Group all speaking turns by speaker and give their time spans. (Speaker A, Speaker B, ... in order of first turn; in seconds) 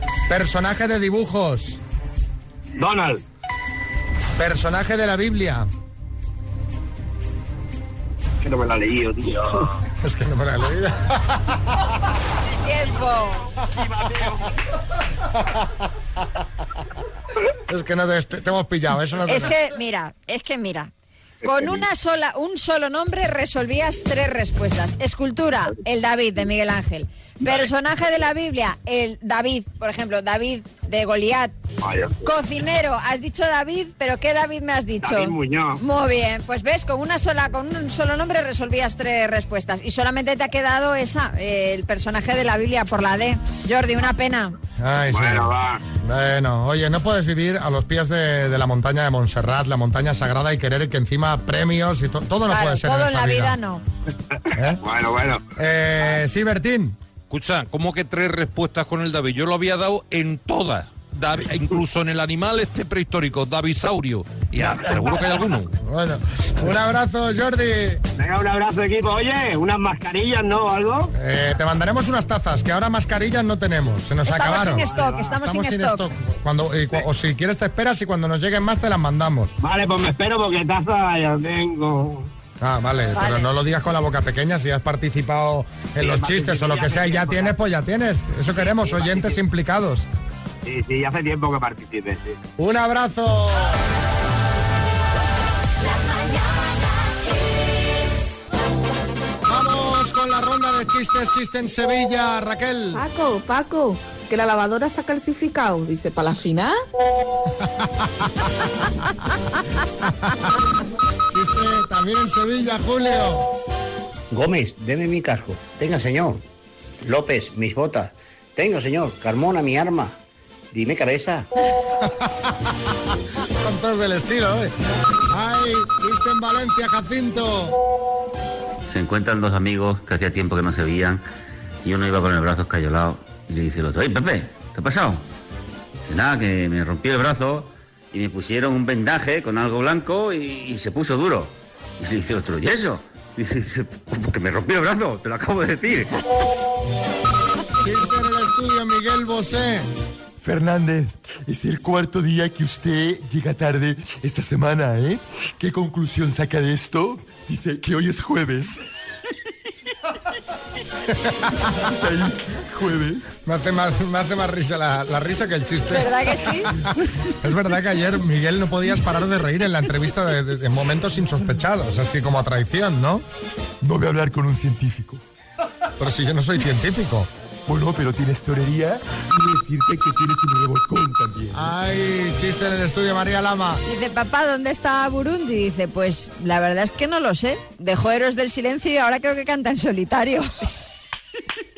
Speaker A: 0.3-1.8, 4.4-5.7, 10.0-11.6, 17.7-19.6, 44.8-53.6, 54.5-54.8, 55.6-57.0, 65.8-68.0, 71.2-79.5, 82.6-90.1, 92.6-93.8, 99.5-103.0, 110.0-110.5, 111.3-113.5, 122.0-122.5, 123.5-124.7, 125.3-127.8, 147.8-149.9, 161.2-161.7, 163.5-166.1, 167.4-173.2, 176.0-177.3, 181.5-183.8
Speaker B: 2.8-3.2, 8.4-9.7, 13.7-14.5, 21.4-21.7, 31.8-32.3, 35.0-35.8, 45.1-45.8, 54.8-55.5, 65.0-65.2, 68.2-71.1, 74.7-75.3, 79.6-82.3, 86.0-87.6, 88.5-89.4, 90.7-92.4
Speaker C: 12.6-13.5, 19.2-20.9, 21.4-31.5, 32.2-44.6, 52.5-53.8, 74.3-76.0, 83.2-83.5, 165.9-166.7, 183.8-190.5
Speaker D: 57.3-65.7
Speaker E: 102.9-106.8
Speaker F: 114.3-116.4, 117.0-120.2, 120.7-121.5
Speaker G: 128.9-131.2, 131.8-135.2, 136.1-146.1
Speaker H: 150.4-158.8, 161.8-163.2, 173.8-175.2, 177.7-181.7